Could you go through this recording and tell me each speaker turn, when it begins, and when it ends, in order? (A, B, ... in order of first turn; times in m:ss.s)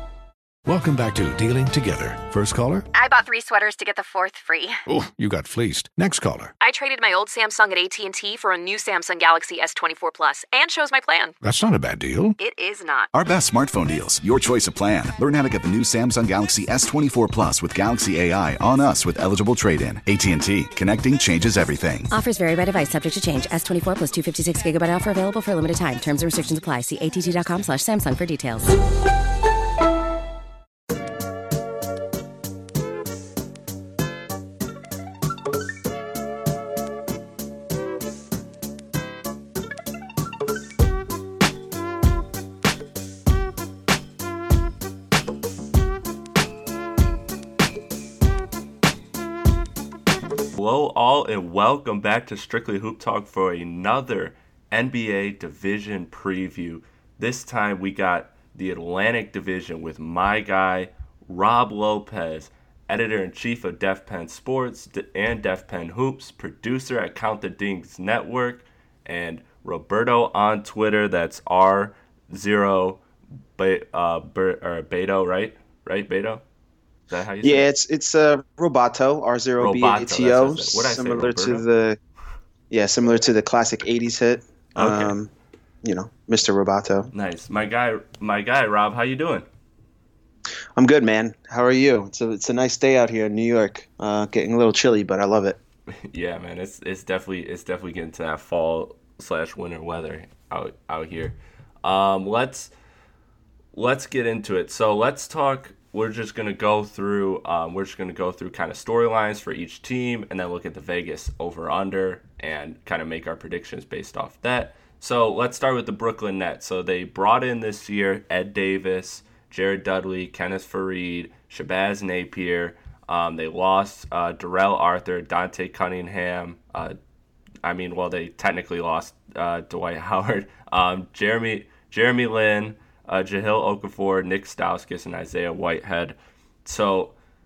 0:00.6-0:02.9 A
0:02.9-0:04.8 B
0:04.9-0:06.5 A
0:06.6-0:11.4 B
0:11.4-0:12.4 A
0:12.4-0:13.1 B
0:13.1-0:22.1 C
0:22.1-0:28.8 D
0:50.5-1:13.0 E
1:13.6-1:16.4 E
1:17.1-1:17.7 E
1:17.4-1:22.0 F
1:19.6-1:21.7 E
1:22.7-1:25.3 F
1:24.8-1:25.2 E
1:25.8-1:27.1 F
1:27.1-1:29.5 E
1:30.8-1:35.6 F
1:35.9-1:42.7 E
1:43.7-2:07.0 E
2:07.6-2:17.2 E